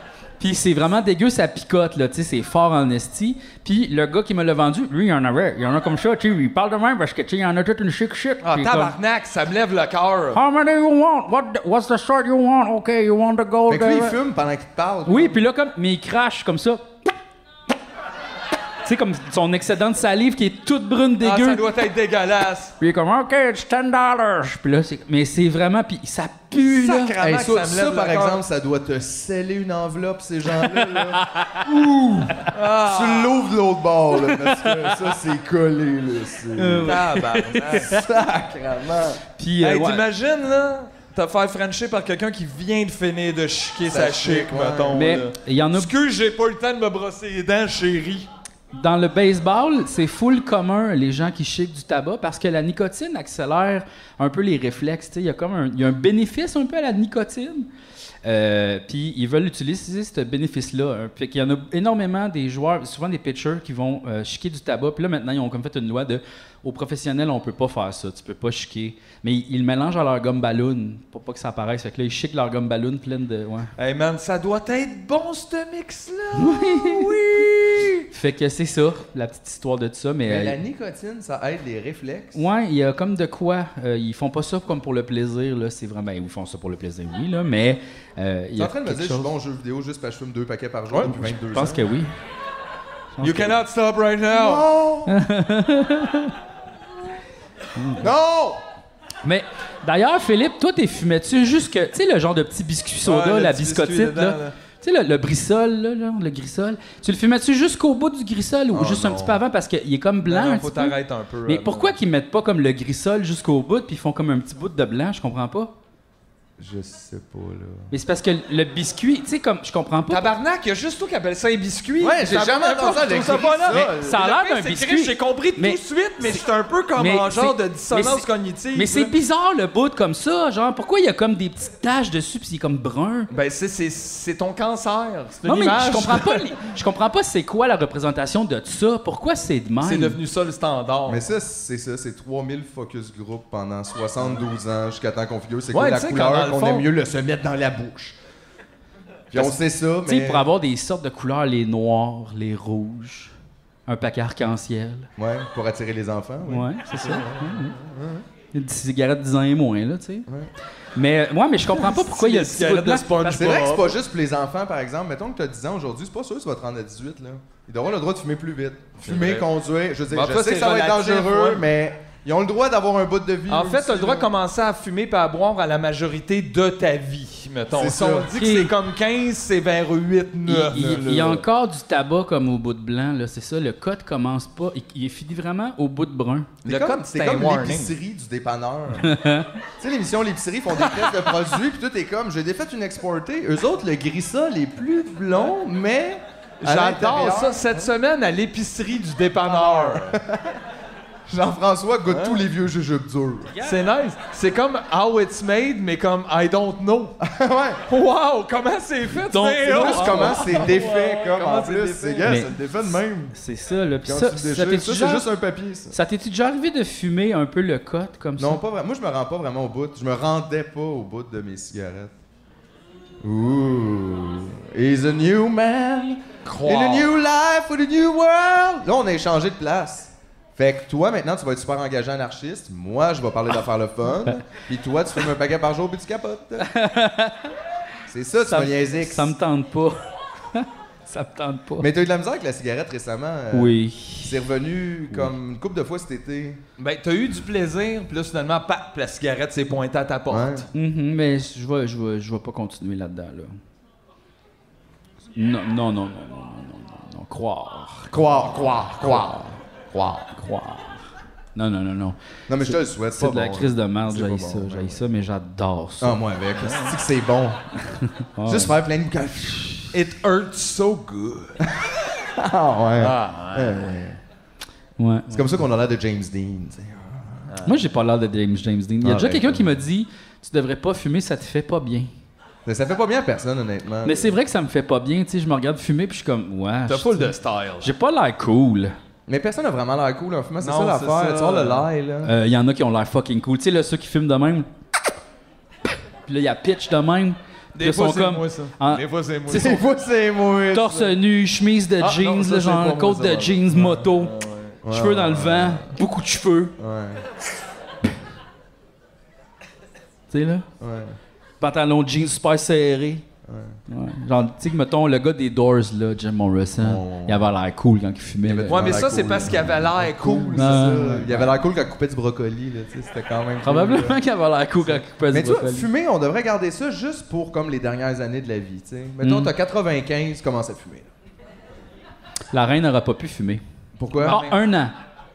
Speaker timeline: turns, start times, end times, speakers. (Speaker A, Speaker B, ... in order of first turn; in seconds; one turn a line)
Speaker A: 0.4-8.9
Speaker B: 8.4-10.4
Speaker A: 10.3-14.2
Speaker C: 13.7-15.4
Speaker A: 15.1-16.9
Speaker A: 18.8-21.6
Speaker B: 21.2-22.7
Speaker A: 22.8-27.1
Speaker B: 26.6-28.4
Speaker C: 27.2-37.0
Speaker A: 30.8-31.6
Speaker B: 32.5-33.5
Speaker A: 34.3-34.9
Speaker A: 36.6-38.0
Speaker B: 36.8-37.9
Speaker C: 37.8-39.2
Speaker A: 39.4-40.0
Speaker B: 39.6-48.3
Speaker C: 43.9-45.2
Speaker A: 44.9-45.9
Speaker A: 48.7-57.7
Speaker A: 58.2-73.7
Speaker B: 73.8-78.0
Speaker A: 76.4-77.2
Speaker A: 78.1-80.6
Speaker C: 80.3-82.4
Speaker A: 82.3-89.3
Speaker C: 88.6-92.0
Speaker A: 91.1-92.1
Speaker A: 93.2-93.6
Speaker B: 93.2-94.7
Speaker C: 94.3-95.2
Speaker A: 95.1-96.3
Speaker A: 97.8-98.0
Speaker C: 98.0-98.6
Speaker A: 99.2-115.7
Speaker B: 103.0-104.6
Speaker C: 108.7-109.4
Speaker B: 110.2-112.0
Speaker C: 116.6-117.9
Speaker A: 117.9-120.3
Speaker B: 120.1-129.2
Speaker C: 122.0-124.2
Speaker A: 123.7-126.4
Speaker A: 127.0-133.3
Speaker B: 133.3-136.6
Speaker A: 135.4-140.2
Speaker B: 139.8-141.3
Speaker C: 141.1-148.2
Speaker B: 145.7-146.9
Speaker C: 149.3-150.5
Speaker A: 150.1-153.3
Speaker A: 153.9-155.1
Speaker C: 155.2-158.2
Speaker A: 156.4-157.7
Speaker A: 158.5-160.3
Speaker A: 161.0-163.6
Speaker B: 161.7-164.0
Speaker C: 163.3-174.3
Speaker B: 169.0-169.5
Speaker B: 170.1-171.6
Speaker B: 173.5-181.4
Speaker C: 177.7-178.3
Speaker A: 178.3-178.7
Speaker A: 180.5-186.5
Speaker C: 180.7-181.4
Speaker B: 186.6-187.9
Speaker C: 186.6-189.1
Speaker A: 189.0-189.5
Speaker C: 189.8-197.9
Speaker B: 196.6-200.2
Speaker C: 199.4-200.6
Speaker C: 201.3-203.6
Speaker B: 202.1-202.4
Speaker B: 203.6-207.2
Speaker C: 207.2-207.8
Speaker B: 207.9-212.4
Speaker A: 209.3-210.7
Speaker C: 209.7-213.3
Speaker A: 212.2-212.5
Speaker A: 213.3-215.3
Speaker C: 214.0-216.0
Speaker A: 215.9-218.6
Speaker C: 218.4-222.1
Speaker C: 223.2-236.7
Speaker B: 226.5-227.1
Speaker A: 236.7-237.5
Speaker C: 238.1-239.3
Speaker A: 238.4-240.0
Speaker A: 240.5-241.9
Speaker C: 241.8-246.6
Speaker A: 243.5-244.4
Speaker B: 246.8-250.7
Speaker C: 250.3-250.7
Speaker A: 250.8-253.6
Speaker A: 255.4-258.2
Speaker C: 258.1-259.3
Speaker B: 258.4-259.4
Speaker A: 259.1-259.6
Speaker C: 259.9-260.2
Speaker A: 260.4-266.2
Speaker C: 262.5-265.0
Speaker C: 266.0-267.6
Speaker B: 266.6-266.9
Speaker A: 268.0-268.8
Speaker C: 268.5-269.9
Speaker B: 269.9-271.6
Speaker C: 271.7-274.2
Speaker B: 273.0-273.9
Speaker A: 275.0-275.6
Speaker C: 275.3-277.5
Speaker A: 277.6-282.1
Speaker C: 279.0-279.8
Speaker C: 282.7-284.4
Speaker A: 284.1-289.0
Speaker B: 286.9-287.9
Speaker C: 289.3-292.3
Speaker B: 290.6-291.9
Speaker A: 292.2-294.7
Speaker A: 296.3-299.8
Speaker B: 297.8-299.8
Speaker C: 299.5-301.2
Speaker A: 300.7-304.3
Speaker B: 302.1-303.2
Speaker C: 302.1-304.0
Speaker B: 303.8-304.8
Speaker C: 304.8-305.9
Speaker A: 304.9-306.7
Speaker C: 306.8-307.2
Speaker A: 310.3-310.7
Speaker C: 310.8-311.2
Speaker A: 311.6-313.2
Speaker C: 313.4-313.8
Speaker A: 313.9-319.3
Speaker C: 316.8-317.5
Speaker C: 318.4-324.2
Speaker B: 318.7-321.4
Speaker A: 320.5-321.5
Speaker A: 323.6-325.9
Speaker C: 324.8-331.1
Speaker A: 329.2-329.5
Speaker A: 332.5-333.6
Speaker C: 334.0-334.4
Speaker A: 334.2-334.9
Speaker B: 334.2-334.5